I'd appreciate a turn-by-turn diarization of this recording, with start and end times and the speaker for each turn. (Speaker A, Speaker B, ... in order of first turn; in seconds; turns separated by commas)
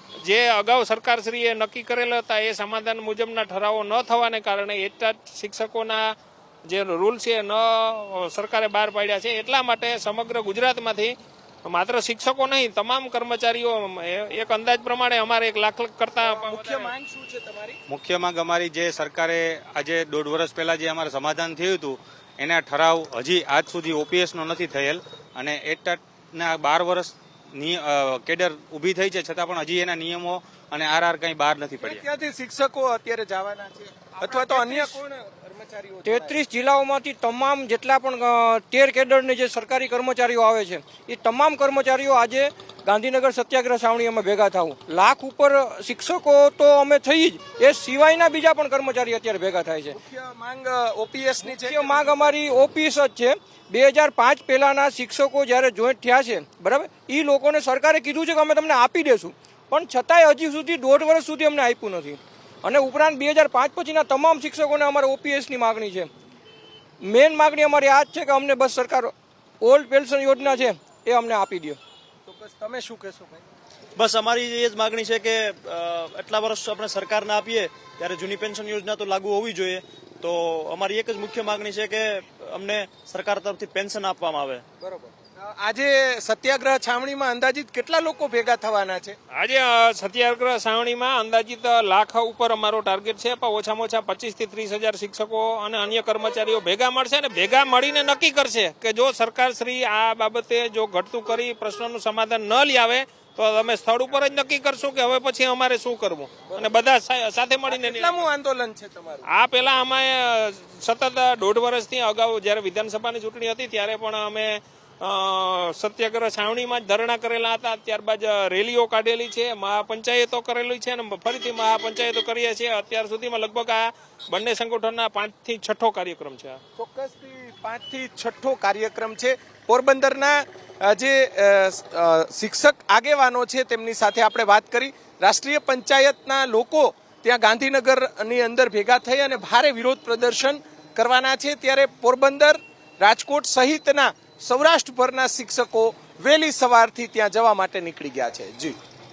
Speaker A: 0.2-6.1, Speaker A: 6.7-11.1, Speaker A: 11.7-16.9, Speaker B: 16.2-17.8, Speaker C: 17.9-32.0, Speaker B: 31.8-36.4, Speaker D: 34.3-35.0, Speaker D: 36.0-50.0, Speaker B: 49.9-52.3, Speaker D: 51.4-66.1, Speaker D: 67.0-71.8, Speaker B: 72.3-73.4, Speaker E: 74.0-84.6, Speaker B: 84.8-89.2, Speaker A: 89.3-108.3, Speaker B: 107.7-109.3, Speaker A: 109.3-126.6, Speaker B: 126.8-148.8